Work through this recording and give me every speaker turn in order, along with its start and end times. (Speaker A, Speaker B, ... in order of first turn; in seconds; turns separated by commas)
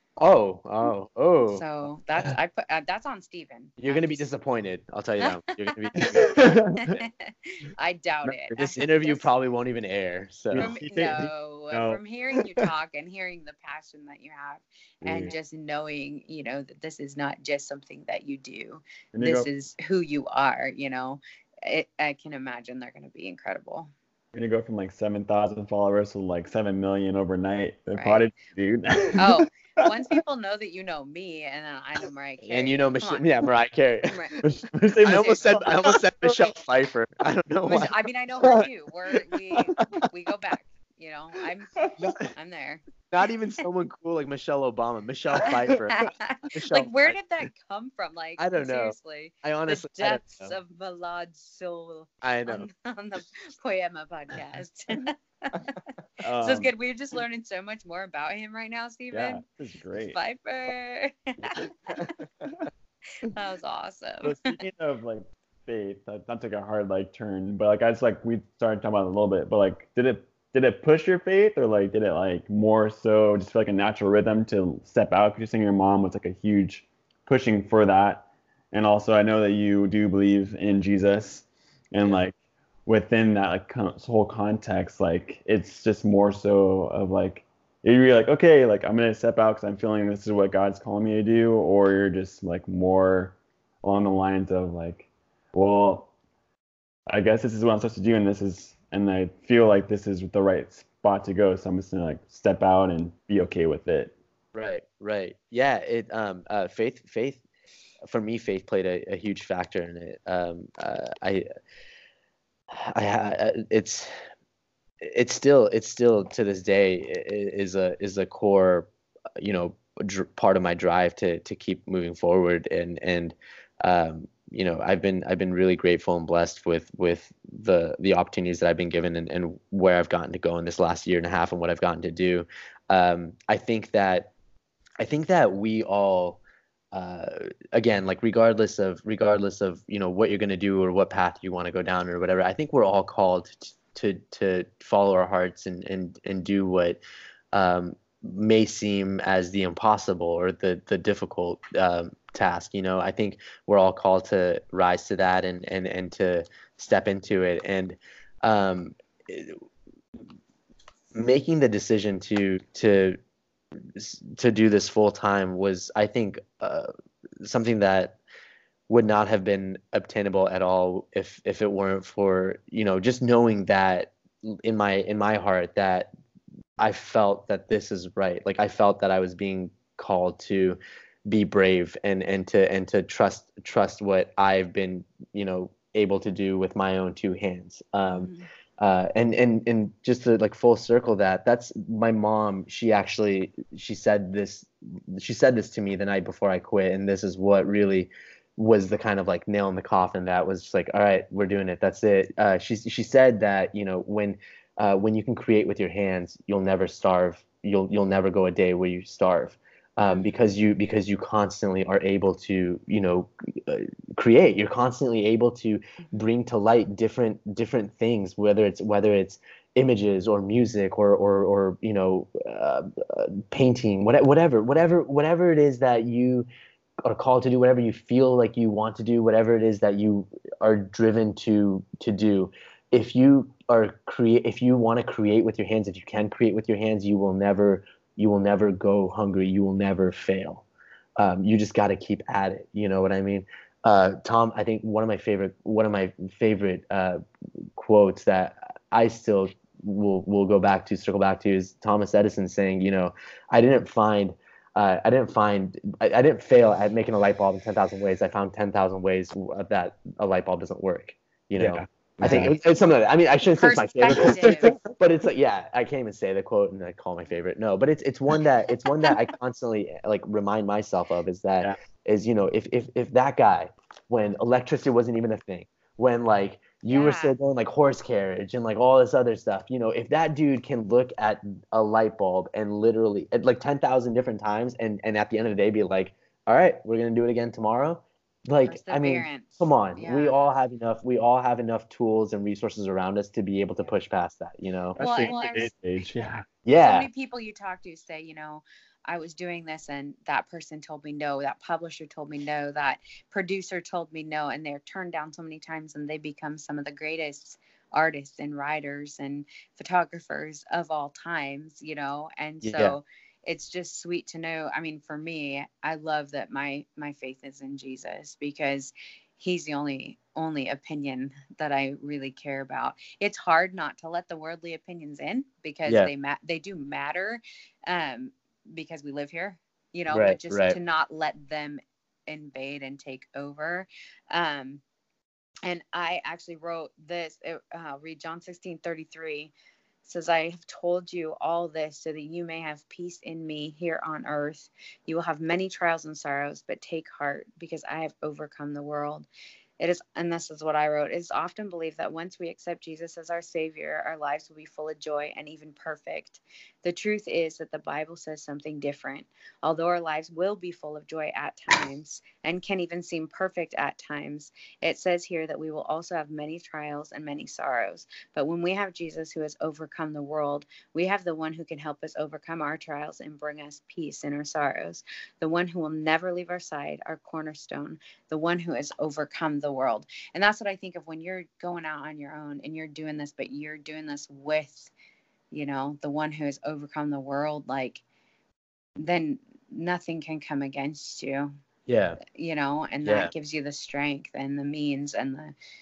Speaker A: 0.2-1.6, Speaker B: 1.5-4.3, Speaker A: 3.8-7.0, Speaker B: 5.2-9.3, Speaker C: 6.0-6.6, Speaker C: 8.3-8.6, Speaker A: 8.6-10.7, Speaker C: 10.5-12.0, Speaker B: 10.6-23.9, Speaker C: 15.0-15.3, Speaker C: 19.1-19.5, Speaker C: 24.3-29.3, Speaker B: 27.9-28.2, Speaker B: 29.2-33.3, Speaker A: 32.4-34.4, Speaker B: 34.1-34.3, Speaker C: 34.4-36.3, Speaker A: 35.0-38.7, Speaker B: 35.1-35.4, Speaker B: 37.7-41.8, Speaker A: 42.0-42.3, Speaker B: 42.3-42.8, Speaker A: 43.1-47.2, Speaker B: 45.9-55.8, Speaker A: 48.4-50.6, Speaker A: 52.2-52.7, Speaker C: 56.2-56.7, Speaker B: 56.4-59.4, Speaker C: 59.1-60.2, Speaker B: 60.0-62.2, Speaker A: 62.0-62.6, Speaker B: 63.2-64.6, Speaker C: 64.2-82.3, Speaker C: 82.9-96.1, Speaker C: 97.1-104.1, Speaker A: 104.5-107.4, Speaker A: 108.0-111.5, Speaker A: 112.7-114.1, Speaker A: 115.0-134.3, Speaker A: 135.0-136.4, Speaker A: 136.9-147.0, Speaker A: 147.5-159.6, Speaker A: 161.1-163.2, Speaker A: 163.9-166.9, Speaker A: 167.4-168.2, Speaker A: 168.9-176.1, Speaker A: 176.8-226.5, Speaker B: 188.1-188.5, Speaker B: 210.1-210.4, Speaker A: 227.0-240.6, Speaker A: 241.2-247.2, Speaker A: 247.8-295.0, Speaker C: 261.6-262.5, Speaker B: 263.6-264.7, Speaker B: 276.9-277.4, Speaker B: 288.7-290.4, Speaker C: 294.9-296.4, Speaker B: 295.0-295.7, Speaker A: 296.6-297.1, Speaker B: 296.8-334.8, Speaker A: 312.6-313.0, Speaker A: 330.1-330.8, Speaker B: 335.6-339.5, Speaker B: 340.0-349.3, Speaker B: 349.8-384.9, Speaker B: 385.5-388.0, Speaker B: 389.0-391.5, Speaker A: 391.9-392.2, Speaker B: 392.2-395.5, Speaker A: 393.0-393.3